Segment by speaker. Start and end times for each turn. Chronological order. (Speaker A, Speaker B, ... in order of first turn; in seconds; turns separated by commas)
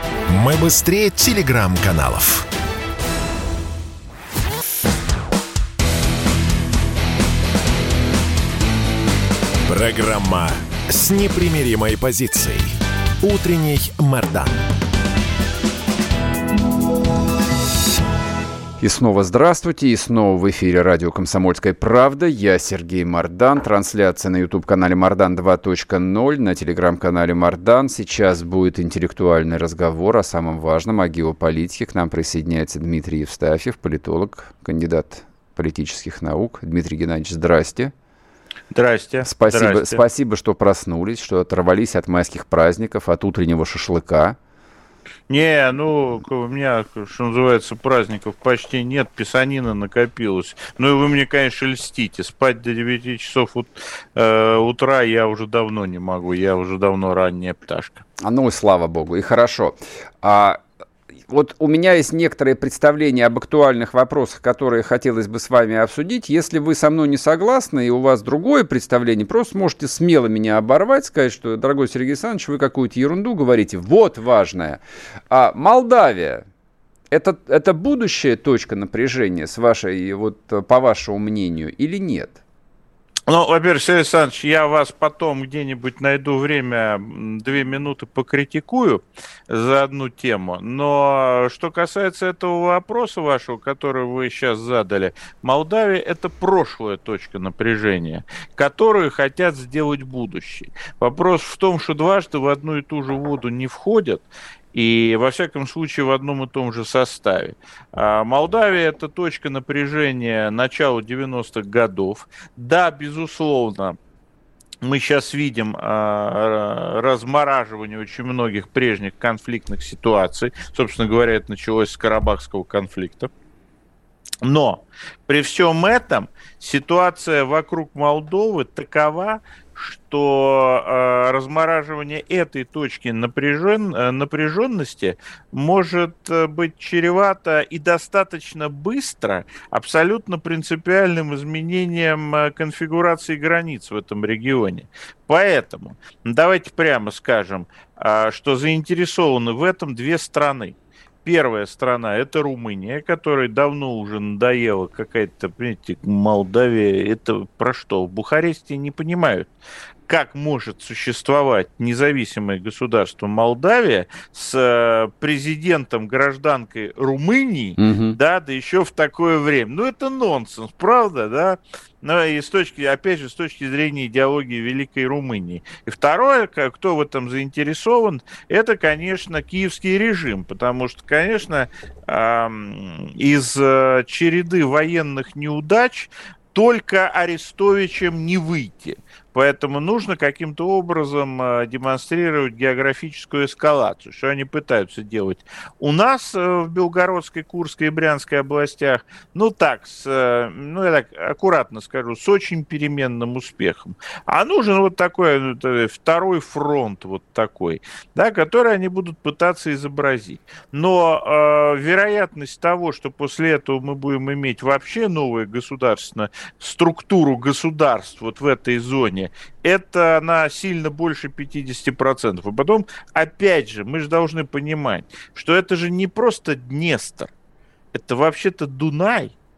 Speaker A: 0.3-2.5, Speaker A: 9.7-14.6, Speaker B: 18.8-37.9, Speaker C: 38.7-40.0, Speaker B: 39.2-44.4, Speaker C: 45.3-58.0, Speaker B: 58.2-60.6, Speaker B: 61.3-76.4, Speaker B: 77.1-82.4, Speaker C: 83.3-114.0, Speaker C: 114.8-123.3, Speaker C: 124.4-159.5, Speaker C: 160.1-227.3, Speaker B: 167.8-168.2, Speaker C: 227.9-229.3